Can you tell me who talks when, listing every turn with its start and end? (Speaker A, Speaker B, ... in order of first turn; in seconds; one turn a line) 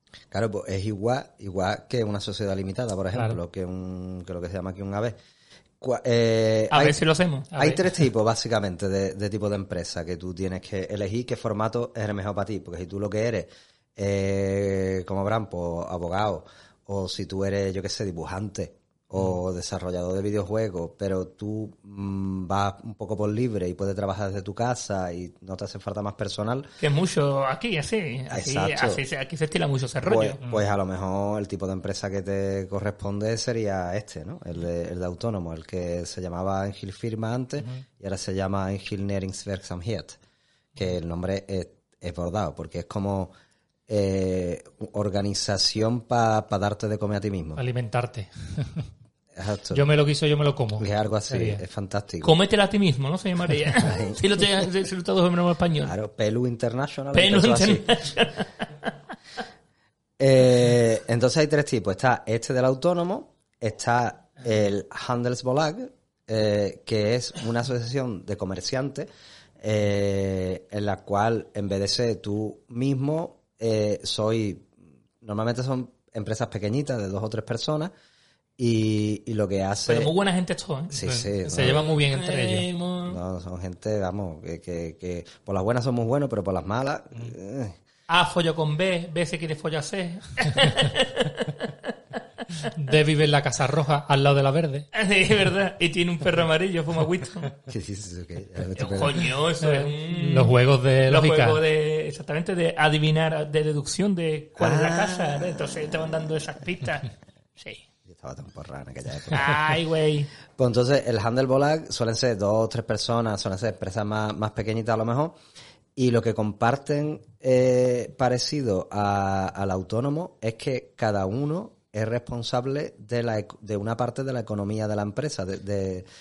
Speaker A: 0.3-5.2
Speaker A: 5.8-7.0
Speaker B: 6.7-7.5
Speaker C: 7.5-7.8
Speaker A: 7.5-26.7
Speaker B: 26.8-30.4
Speaker A: 28.3-29.0
Speaker A: 30.0-40.2
Speaker A: 40.8-43.3
Speaker A: 43.9-47.6
Speaker C: 47.6-48.9
Speaker A: 49.3-49.8
Speaker C: 49.7-51.6
Speaker A: 50.8-52.3
Speaker B: 52.2-55.9
Speaker A: 53.8-54.2
Speaker A: 55.8-58.0
Speaker B: 57.1-58.5
Speaker A: 60.2-69.1
Speaker A: 69.6-77.9
Speaker A: 78.6-80.1
Speaker B: 79.9-81.0
Speaker A: 80.9-81.9
Speaker C: 81.0-82.7
Speaker B: 82.1-83.2
Speaker A: 83.0-87.8
Speaker B: 88.1-91.7
Speaker C: 92.7-94.8
Speaker B: 94.9-97.5
Speaker A: 97.7-99.3
Speaker B: 98.8-107.8
Speaker C: 99.6-101.6
Speaker A: 104.6-105.6
Speaker A: 108.0-109.8
Speaker B: 109.3-110.3
Speaker A: 110.5-115.3
Speaker A: 116.0-126.1